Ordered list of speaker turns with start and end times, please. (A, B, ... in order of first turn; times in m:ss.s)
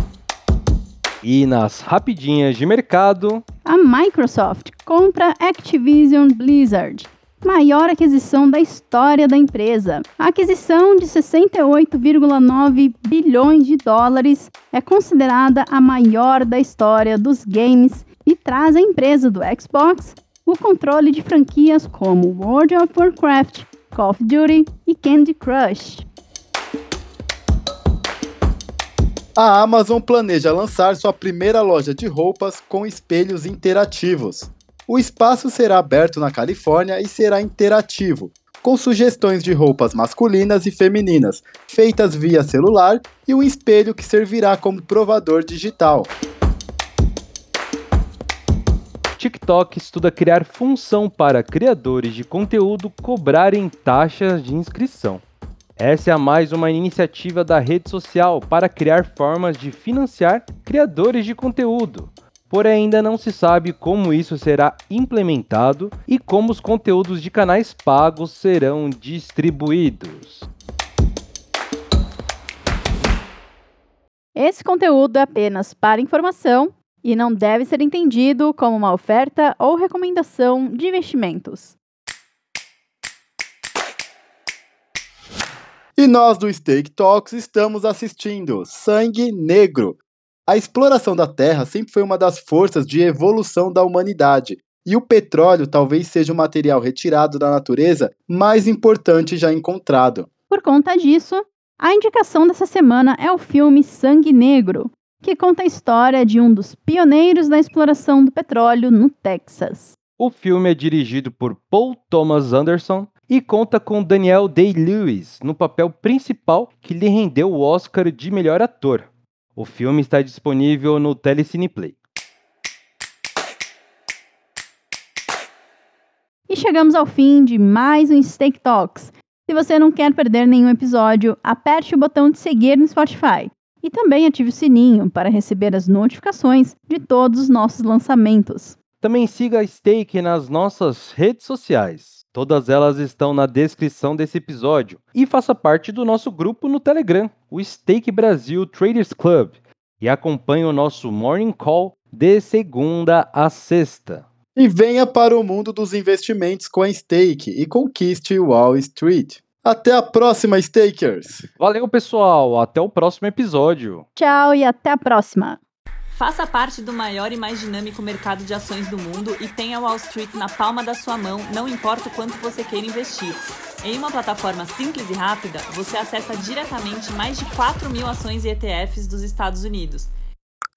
0:01.2-0:03.4 A
0:03.6-0:26.1 B
0:29.4-0:46.1 C
0:49.2-0:55.2 A
0:55.8-1:10.5 A
1:14.3-1:21.8 B
1:26.0-1:40.3 C
1:40.5-1:50.0 B
1:50.2-2:02.0 A
2:06.5-2:18.8 B
2:19.0-2:34.3 A
2:34.6-2:41.5 C
2:41.6-2:44.1 A
2:44.2-2:45.6 B
2:46.2-3:00.1 D